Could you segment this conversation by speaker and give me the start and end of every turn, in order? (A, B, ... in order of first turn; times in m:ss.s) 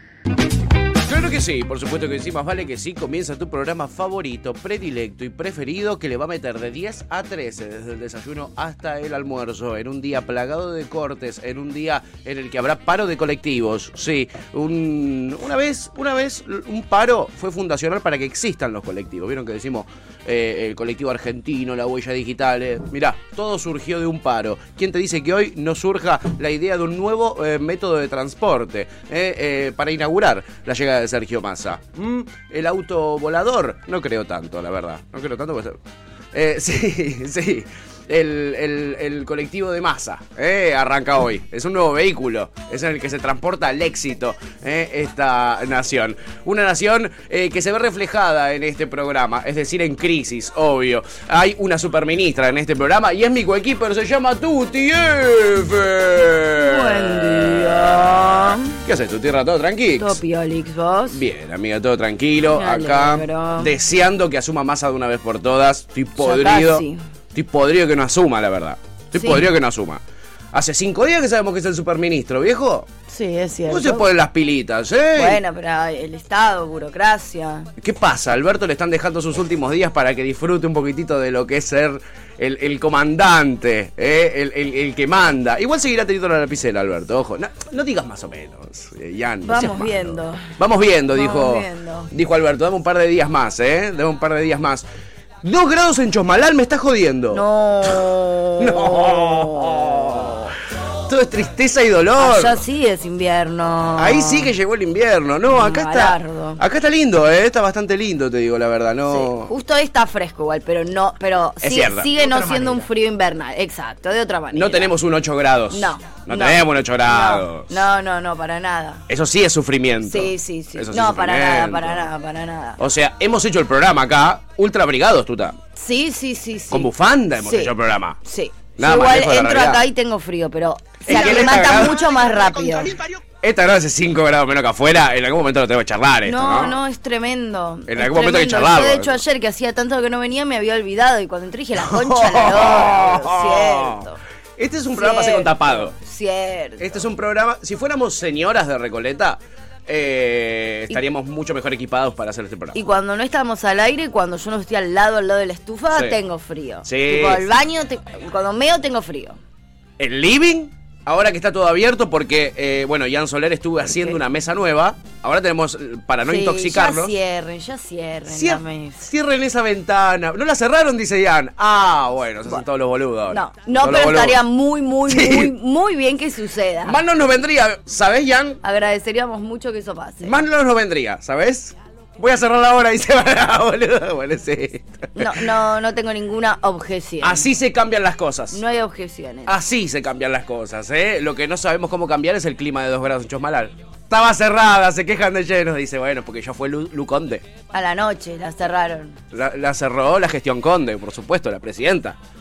0:01.0-0:35.8 A
0:36.3-1:00.2 A
0:56.6-0:58.8 B
1:00.0-1:01.2 B
1:01.1-1:12.9 A
1:02.5-1:03.7 B
1:06.2-1:07.0 B
1:09.2-1:09.4 B
1:13.1-1:14.1 B
1:13.7-1:15.4 A
1:15.2-1:17.7 B
1:17.8-1:34.9 A
1:29.4-1:30.6 B
1:31.1-1:32.1 B
1:35.4-1:40.4 A
1:37.3-1:40.6 B
1:41.0-1:42.6 A
1:42.2-1:44.5 B
1:44.0-1:49.5 A
1:45.5-1:46.6 B
1:49.1-1:54.9 B
1:51.6-1:52.8 A
1:54.5-1:57.9 A
1:55.7-1:59.0 B
1:59.1-2:02.1 A
2:00.0-2:02.8 B
2:02.8-2:05.6 A
2:05.7-2:13.0 B
2:06.7-2:08.2 A
2:08.8-2:09.9 A
2:11.1-2:12.2 A
2:13.3-2:16.8 A
2:16.2-2:24.2 B
2:17.9-2:19.2 A
2:21.8-2:26.0 A
2:24.9-2:27.0 B
2:26.8-2:32.8 A
2:32.7-2:39.4 B
2:35.9-2:36.2 A
2:36.8-2:37.5 A
2:40.0-2:47.1 A
2:46.2-2:49.1 B
2:48.3-2:54.4 A
2:53.3-2:57.0 B
2:55.1-2:55.5 A
2:56.8-2:58.6 A
2:58.6-3:00.4 B
3:00.2-3:05.6 A
3:05.2-3:07.5 B
3:07.2-3:08.6 A
3:08.5-3:09.6 B
3:09.5-3:17.4 A
3:17.7-3:19.2 B
3:19.3-3:22.2 A